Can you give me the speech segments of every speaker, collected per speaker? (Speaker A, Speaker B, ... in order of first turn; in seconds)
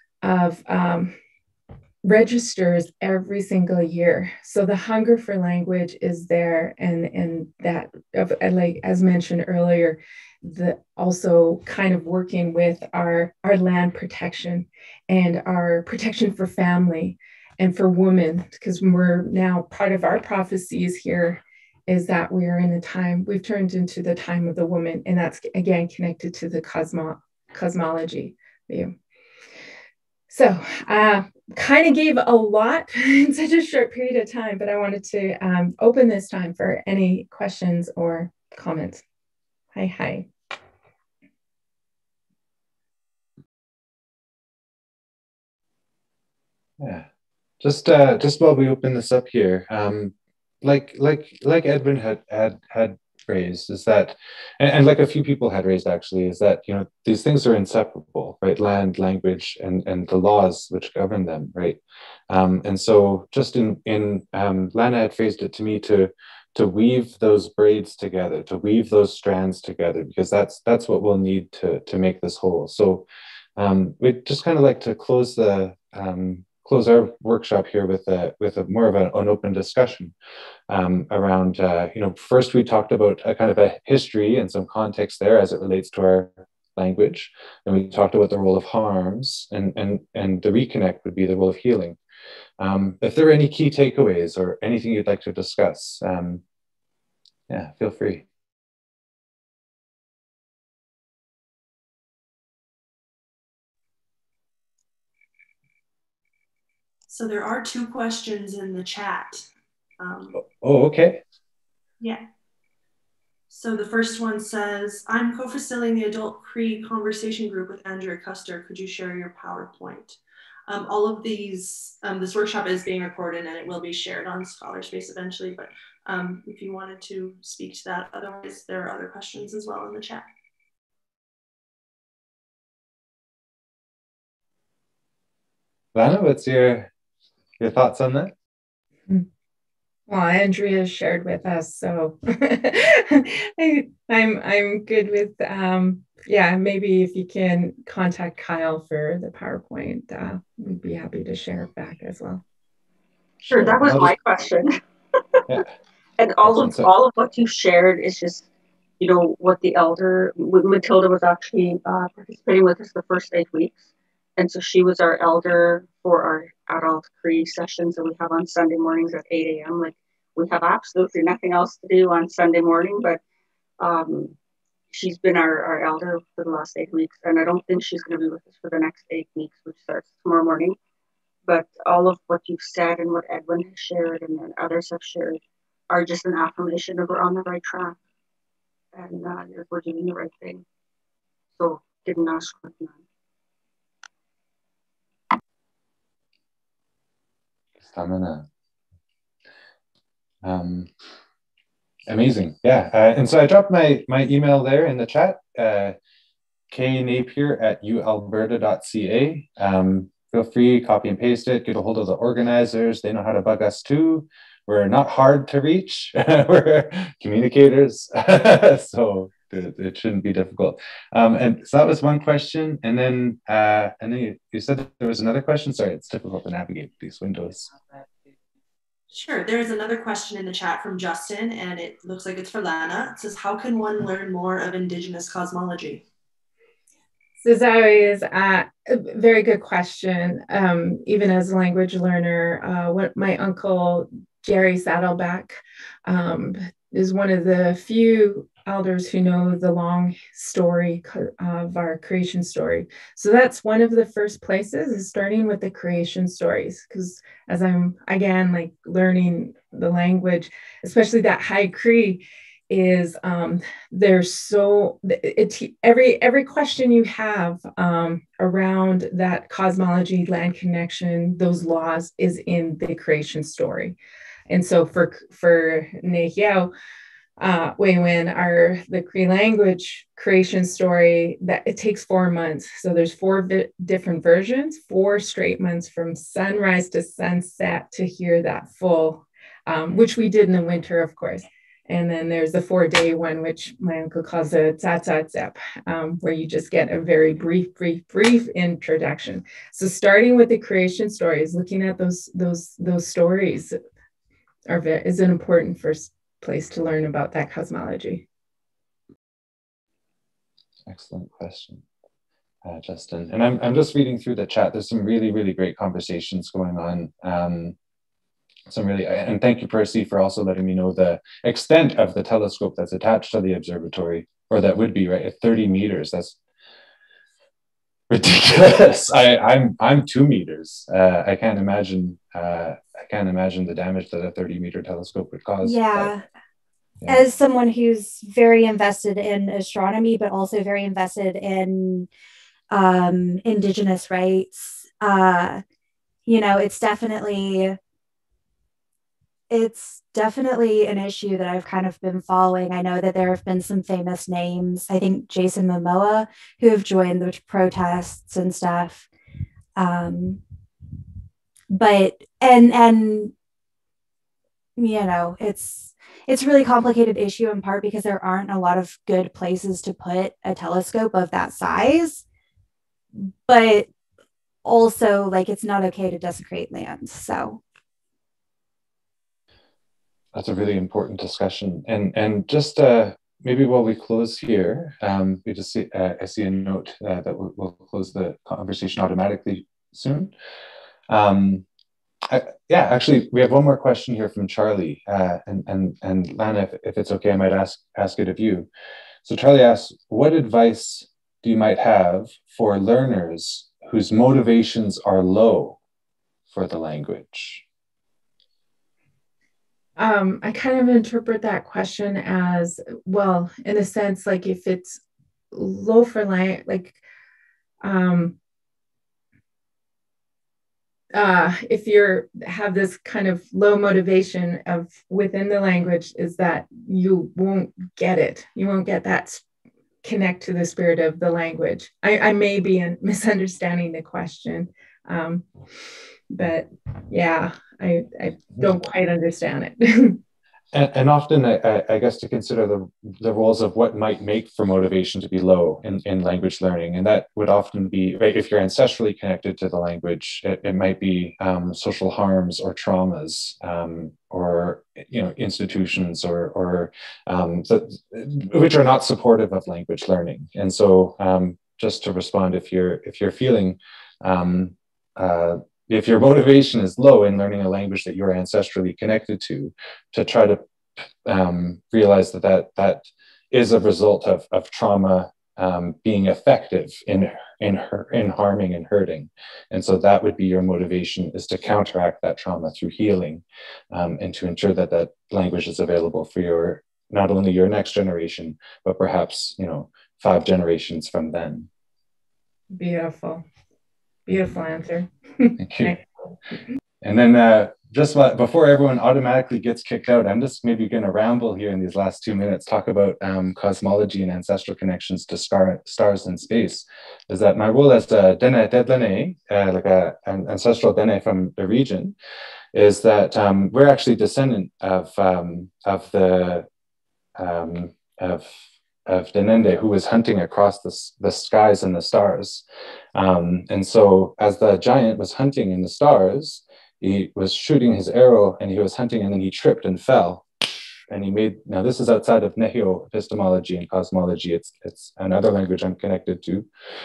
Speaker A: 0.2-1.1, 2.0-28.9, 30.3-39.0, 39.7-40.3, 140.1-152.4, 237.4-274.0, 274.5-276.7, 277.4-303.7, 304.7-308.2, 410.0-415.0, 415.5-417.0, 417.8-418.4, 421.1-429.4, 430.0-435.4, 436.3-440.2, 492.7-493.4, 494.3-496.0
Speaker B: 46.8-47.0, 47.6-80.1, 80.7-92.0, 92.6-96.4, 97.5-98.2, 110.4-111.2, 135.9-136.9, 137.6-138.3, 153.4-154.2, 156.4-156.9, 197.8-198.4, 200.4-200.9, 202.1-205.9, 206.7-227.7, 310.9-311.8, 312.6-317.7, 318.7-326.4, 328.1-336.1, 380.3-390.3, 391.1-391.6, 392.3-398.7, 399.2-405.8, 406.5-407.6, 440.7-491.7, 495.6-496.0, 497.0-512.1, 512.7-516.7, 517.4-536.7
Speaker C: 107.1-109.5, 110.0-110.4, 113.5-130.3, 229.1-236.0
Speaker D: 153.5-154.7, 156.2-158.4, 159.0-163.8, 164.4-173.2, 173.8-174.3, 174.9-180.8, 181.5-185.4, 185.9-188.0, 188.9-190.6, 191.6-193.0
Speaker E: 335.6-336.2, 337.1-342.1, 342.7-345.6, 346.2-347.8, 349.5-359.1, 359.8-360.4, 361.7-363.3, 364.8-372.2, 373.1-373.9, 374.6-377.6